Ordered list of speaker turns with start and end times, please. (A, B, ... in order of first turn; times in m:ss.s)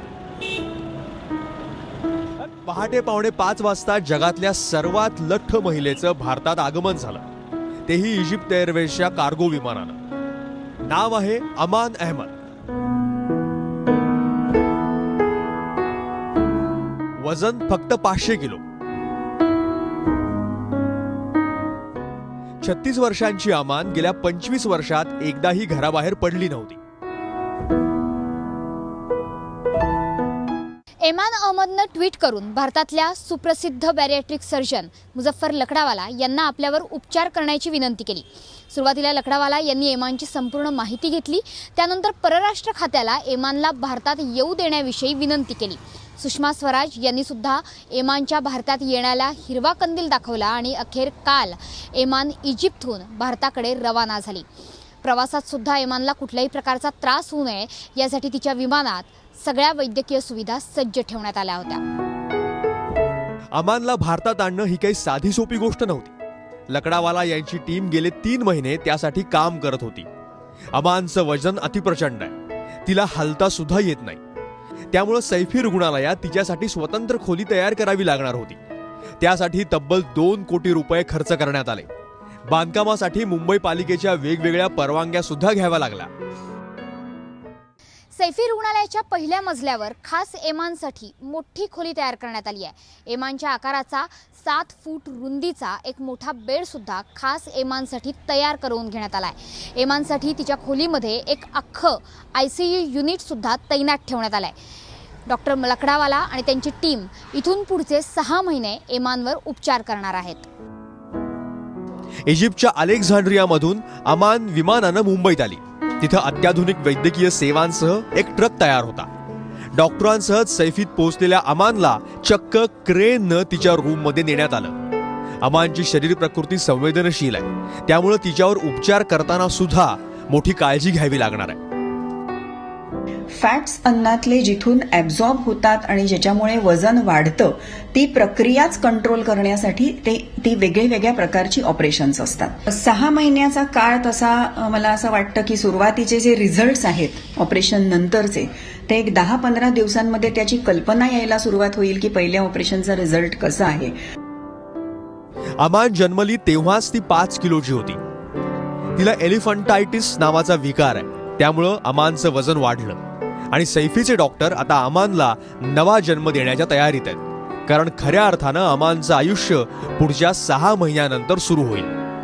0:02.6-0:07.2 A
0:07.9-0:10.0 A
0:10.8-0:12.3 A
0:17.2-0:18.6 A
0:22.6-0:26.8 A
0:31.0-0:54.5 B
0:55.0-1:01.8 B
1:03.5-1:06.1 A
1:06.7-1:10.1 A
1:10.7-1:12.4 A
1:12.9-1:14.2 A
1:14.9-1:18.6 A
1:19.2-1:21.9 A
1:22.5-1:26.1 A
1:28.1-1:44.6 B
1:45.3-1:50.5 B
1:52.3-1:59.1 A
1:59.8-2:04.8 A
2:05.4-2:11.6 A
2:13.3-2:34.0 C
2:35.6-2:38.0 A
2:39.0-2:43.0 A
2:43.5-2:51.9 A